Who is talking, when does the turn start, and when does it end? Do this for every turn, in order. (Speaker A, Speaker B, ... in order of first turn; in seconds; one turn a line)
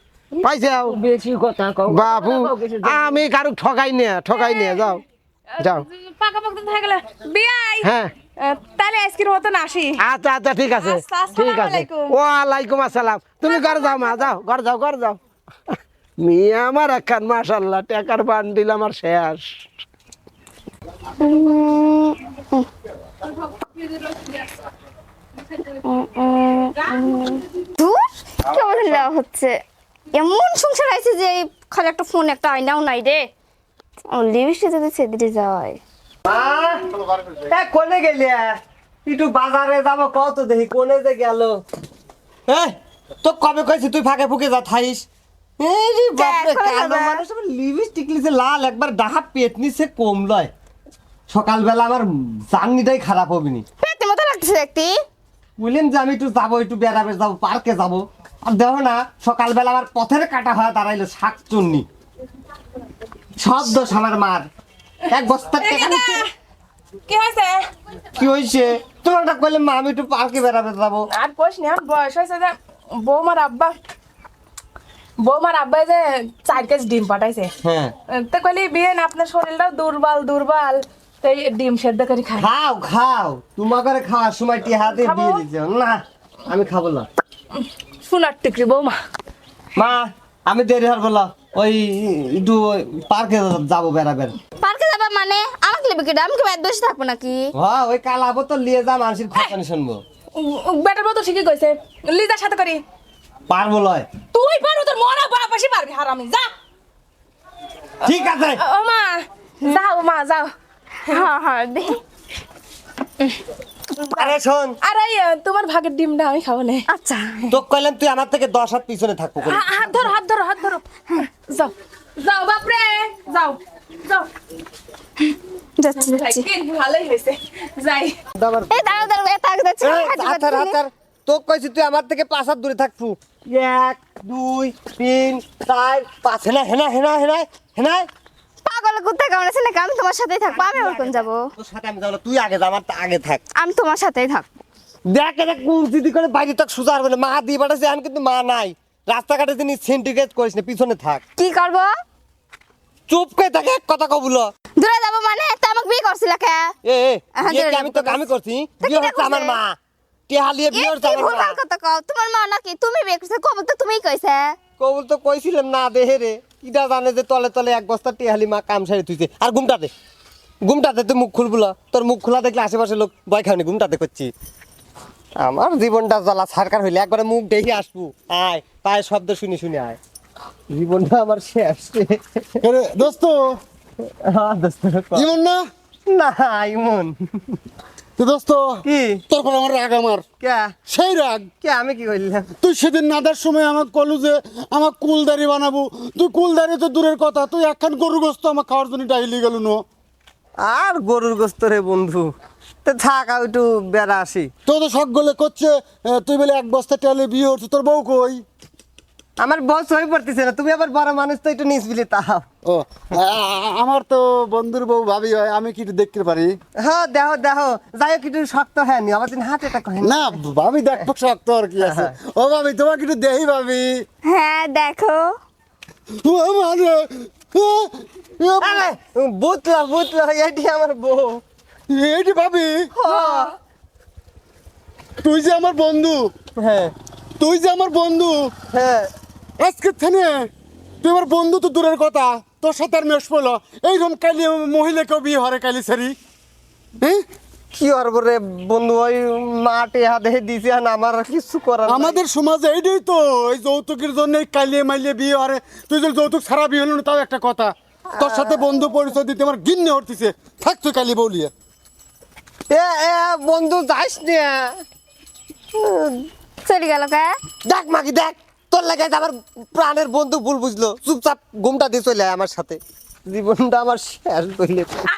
Speaker A: 0.3-3.2
Speaker B: 0.4-1.0
Speaker B: 1.9-5.0
Speaker C: 4.3-10.0
Speaker B: 5.6-5.8
Speaker B: 7.8-8.1
Speaker B: 10.0-15.2
Speaker C: 10.7-12.2
Speaker C: 13.4-14.3
Speaker B: 16.2-19.7
Speaker D: 21.2-22.7
Speaker C: 23.6-24.1
Speaker D: 25.8-29.6
Speaker D: 30.1-33.3
Speaker D: 34.1-35.8
Speaker E: 36.2-36.9
Speaker E: 37.5-41.6
Speaker E: 42.5-45.0
Speaker E: 45.6-50.5
Speaker D: 46.1-47.2
Speaker E: 51.3-53.6
Speaker D: 53.8-55.0
Speaker E: 55.6-61.8
Speaker E: 63.4-64.5
Speaker E: 65.1-66.2
Speaker C: 65.6-66.3
Speaker C: 67.1-67.6
Speaker E: 68.2-71.0
Speaker C: 71.1-73.8
Speaker C: 75.2-77.5
Speaker E: 77.6-77.9
Speaker C: 78.1-82.5
Speaker E: 82.4-87.1
Speaker C: 84.9-85.4
Speaker C: 88.0-89.0
Speaker E: 89.8-94.3
Speaker D: 94.6-97.5
Speaker E: 97.5-100.0
Speaker C: 100.3-102.8
Speaker E: 103.5-104.0
Speaker C: 104.3-106.5
Speaker E: 108.0-108.6
Speaker C: 108.0-110.5
Speaker D: 111.1-112.0
Speaker E: 114.1-114.8
Speaker C: 114.8-116.8
Speaker D: 116.9-117.5
Speaker E: 117.5-120.1
Speaker C: 119.4-124.3
Speaker D: 125.8-126.5
Speaker C: 126.0-128.1
Speaker E: 128.4-129.1
Speaker D: 128.7-130.8
Speaker E: 129.8-138.1
Speaker D: 138.6-141.5
Speaker E: 140.5-143.4
Speaker D: 143.6-144.5
Speaker E: 145.1-151.2
Speaker D: 151.4-151.9
Speaker E: 153.1-154.5
Speaker D: 154.8-156.7
Speaker E: 156.8-159.7
Speaker D: 157.3-158.3
Speaker D: 158.8-159.6
Speaker E: 160.3-161.6
Speaker D: 160.7-164.5
Speaker E: 164.8-169.9
Speaker E: 170.6-174.3
Speaker E: 175.4-180.0
Speaker E: 180.7-182.6
Speaker F: 182.6-183.6
Speaker E: 184.0-185.3
Speaker F: 185.1-185.6
Speaker E: 186.1-187.6
Speaker F: 188.2-190.2
Speaker E: 188.8-189.2
Speaker E: 190.4-190.7
Speaker F: 190.9-191.5
Speaker E: 191.6-192.5
Speaker F: 192.6-199.8
Speaker E: 200.6-202.3
Speaker E: 202.8-204.5
Speaker F: 204.7-208.4
Speaker E: 209.4-212.4
Speaker F: 212.7-216.5
Speaker E: 216.8-220.4
Speaker F: 220.0-224.0
Speaker E: 221.8-222.1
Speaker D: 224.3-225.3
Speaker F: 226.2-228.9
Speaker E: 228.6-231.4
Speaker F: 231.9-232.9
Speaker E: 233.0-233.5
Speaker D: 233.0-233.5
Speaker F: 235.2-236.3
Speaker E: 236.6-236.9
Speaker F: 237.4-238.5
Speaker E: 238.7-239.1
Speaker F: 239.6-240.5
Speaker F: 241.0-246.1
Speaker E: 247.8-252.2
Speaker F: 251.9-261.5
Speaker D: 258.2-258.5
Speaker E: 262.7-264.7
Speaker D: 266.6-267.3
Speaker E: 267.6-275.1